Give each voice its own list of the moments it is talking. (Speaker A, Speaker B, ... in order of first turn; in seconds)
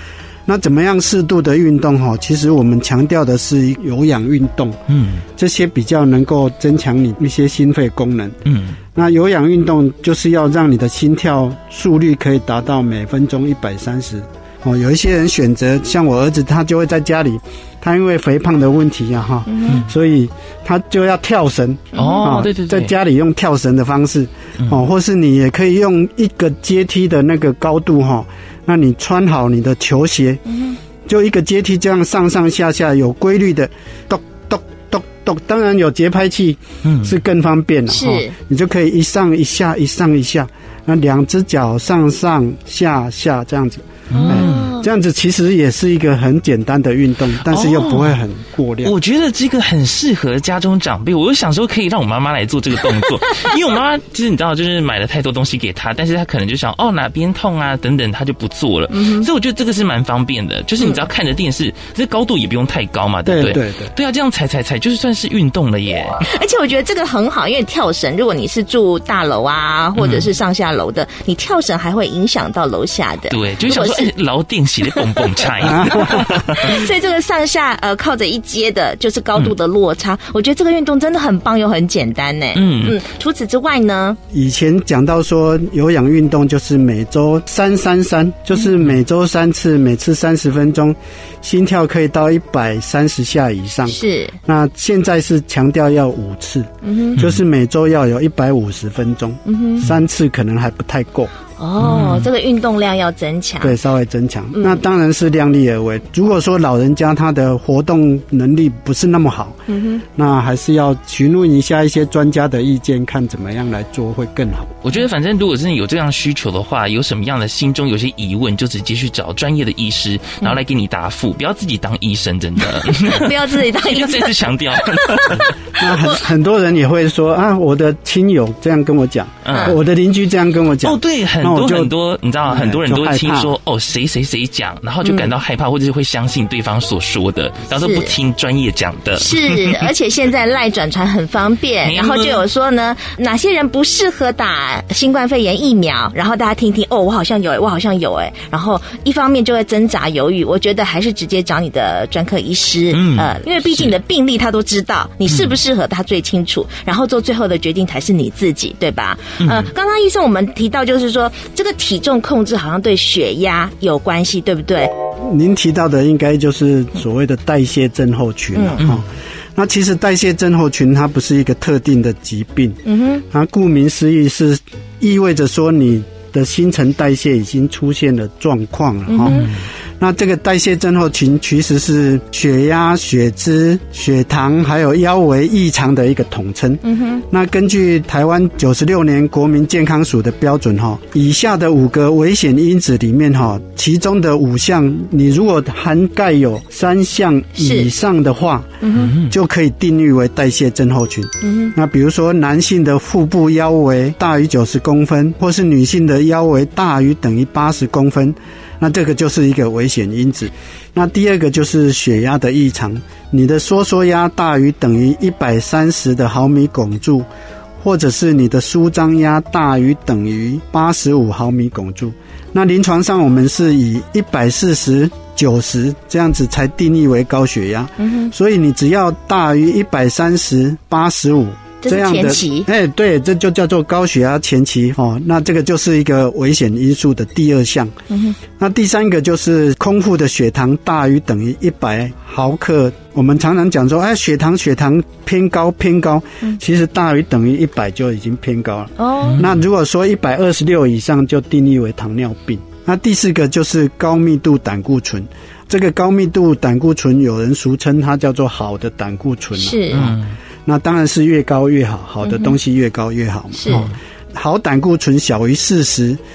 Speaker A: 0.5-4.8, 5.4-8.4, 8.9-30.4, 31.1-48.9, 63.3-63.9, 75.7-76.5, 84.3-101.3, 103.6-114.8, 125.8-131.9, 132.5-133.5, 165.2-217.3, 217.8-237.9, 238.6-266.2
Speaker B: 4.9-5.2, 8.5-8.8, 21.9-22.9, 36.8-37.1, 44.1-44.7, 47.5-48.2, 48.8-66.2, 70.0-70.3, 73.3-76.8, 82.5-83.0, 101.8-102.3, 114.8-125.5, 129.4-129.8, 130.8-139.9, 141.8-142.4, 152.9-153.9, 159.4-159.7, 179.2-179.6, 198.9-199.3, 259.9-260.3, 263.7-263.9
Speaker C: 19.5-19.8, 21.9-22.3, 37.9-38.3, 44.1-44.9, 58.9-59.3, 66.2-74.1, 74.9-84.2, 93.9-94.4, 96.8-97.2, 99.5-99.8, 101.6-103.8, 104.5-104.8, 109.7-110.0, 122.9-125.8, 129.5-129.8, 135.0-135.3, 137.8-138.1, 139.2-164.9, 168.6-168.8, 172.9-173.2, 179.1-179.5, 186.8-187.2, 197.6-197.9, 198.8-199.2, 201.4-201.7, 228.0-228.3, 231.8-232.7, 238.1-238.4, 249.0-249.5, 259.6-260.1, 262.2-262.6, 263.6-263.9